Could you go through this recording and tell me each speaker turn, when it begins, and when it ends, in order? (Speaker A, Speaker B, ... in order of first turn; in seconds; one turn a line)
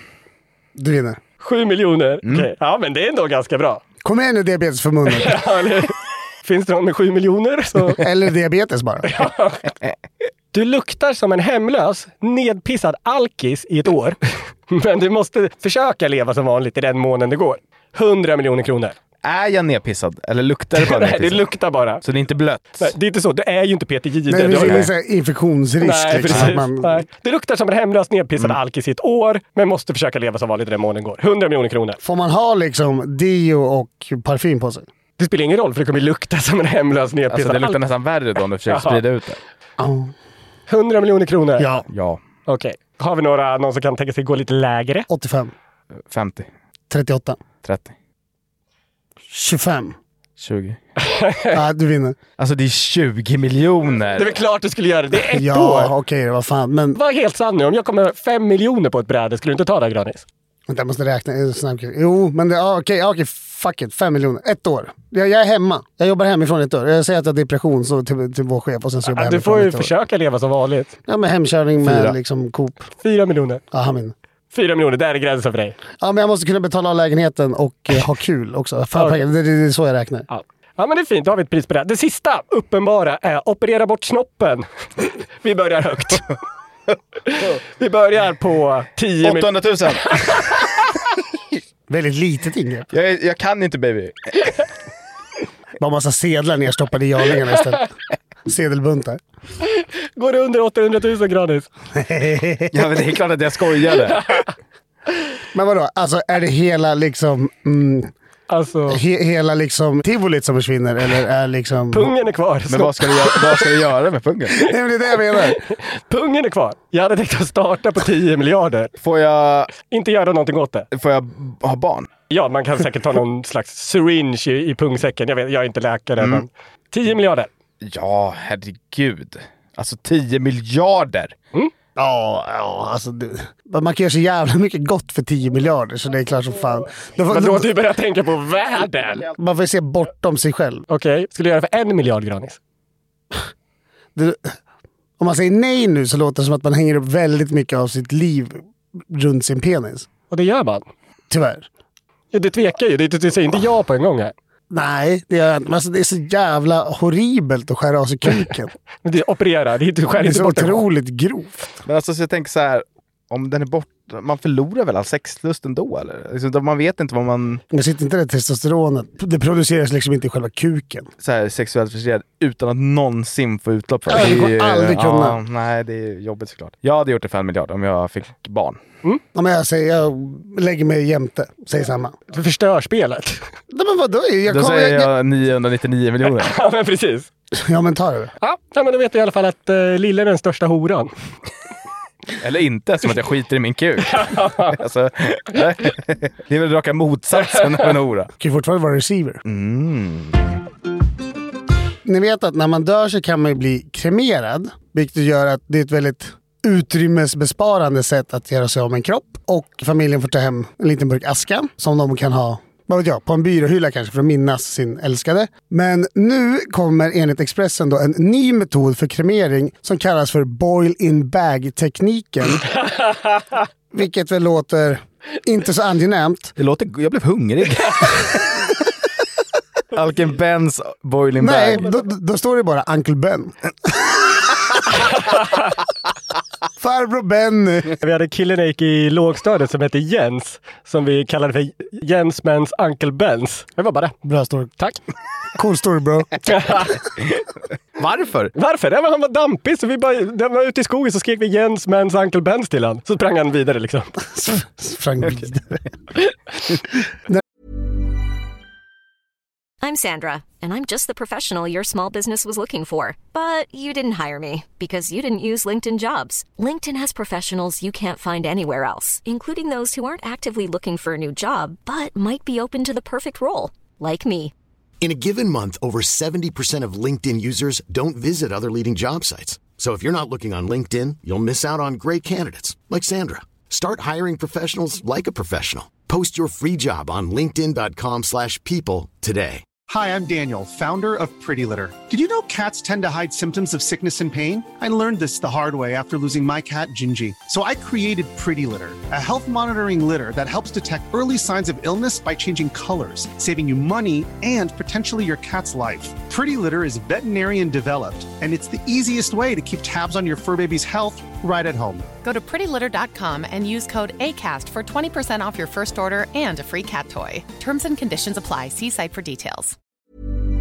Speaker A: 0.8-1.2
Speaker B: 1.4-3.8
Speaker A: 4.0-5.4
Speaker B: 5.1-8.0
Speaker A: 7.9-9.1
Speaker B: 9.1-9.6
Speaker B: 10.5-14.2
Speaker B: 14.7-19.0
Speaker C: 19.2-21.5
Speaker B: 20.8-22.0
Speaker C: 22.0-22.9
Speaker B: 22.8-24.9
Speaker A: 24.3-27.1
Speaker C: 24.5-24.9
Speaker B: 25.8-32.0
Speaker A: 32.0-34.9
Speaker B: 35.2-37.8
Speaker C: 37.3-39.4
Speaker B: 38.7-39.0
Speaker A: 39.8-40.1
Speaker B: 40.7-41.7
Speaker A: 41.6-41.9
Speaker C: 41.9-42.2
Speaker B: 42.5-45.1
Speaker A: 45.1-45.5
Speaker C: 46.1-46.5
Speaker A: 46.9-47.4
Speaker C: 47.6-47.9
Speaker A: 49.3-50.0
Speaker C: 50.4-50.8
Speaker B: 51.0-51.5
Speaker A: 51.5-52.2
Speaker C: 52.4-54.4
Speaker B: 54.2-55.9
Speaker A: 55.2-57.0
Speaker B: 57.0-60.2
Speaker A: 60.7-69.9
Speaker B: 69.1-70.9
Speaker A: 71.1-72.9
Speaker C: 71.8-72.2
Speaker B: 73.0-73.6
Speaker A: 73.7-74.1
Speaker B: 74.5-75.8
Speaker A: 76.0-80.3
Speaker B: 80.3-84.7
Speaker B: 85.4-86.3
Speaker B: 87.3-89.5
Speaker C: 89.2-90.4
Speaker B: 90.1-90.7
Speaker A: 91.9-92.9
Speaker C: 92.9-94.5
Speaker A: 95.8-97.9
Speaker A: 98.5-99.2
Speaker B: 99.7-101.7
Speaker A: 102.0-102.7
Speaker C: 102.7-104.4
Speaker A: 105.5-108.1
Speaker B: 108.5-109.0
Speaker A: 108.9-112.1
Speaker B: 111.9-113.7
Speaker C: 112.7-114.7
Speaker A: 114.6-115.6
Speaker B: 115.4-118.9
Speaker C: 119.0-119.7
Speaker B: 119.9-120.9
Speaker C: 120.9-122.1
Speaker B: 122.3-127.5
Speaker C: 126.2-126.5
Speaker C: 127.8-131.3
Speaker A: 132.0-137.7
Speaker B: 137.3-139.3
Speaker A: 139.3-140.9
Speaker B: 140.9-142.6
Speaker A: 144.2-144.6
Speaker A: 145.2-150.1
Speaker B: 150.3-150.8
Speaker A: 151.3-151.7
Speaker B: 152.3-154.3
Speaker A: 154.7-158.7
Speaker B: 159.0-160.8
Speaker A: 160.2-161.5
Speaker C: 161.8-167.6
Speaker A: 167.7-171.1
Speaker C: 171.2-178.8
Speaker A: 174.1-175.4
Speaker A: 179.3-182.2
Speaker B: 182.3-183.4
Speaker A: 183.7-185.1
Speaker C: 184.5-186.6
Speaker B: 186.2-187.3
Speaker A: 187.5-188.3
Speaker B: 188.4-191.1
Speaker C: 192.4-198.3
Speaker B: 194.1-194.8
Speaker A: 198.4-199.4
Speaker C: 199.4-200.5
Speaker A: 202.1-222.7
Speaker A: 223.9-226.5
Speaker C: 226.6-228.6
Speaker C: 229.9-231.9
Speaker A: 231.4-234.2
Speaker A: 236.8-238.0
Speaker B: 238.0-244.2
Speaker A: 244.2-244.7
Speaker A: 245.6-246.8
Speaker B: 246.5-246.9
Speaker C: 248.0-248.5
Speaker B: 248.6-254.1
Speaker A: 254.3-255.8
Speaker D: 259.8-274.5
Speaker E: 275.0-289.6
Speaker F: 289.9-312.1
Speaker G: 312.2-319.8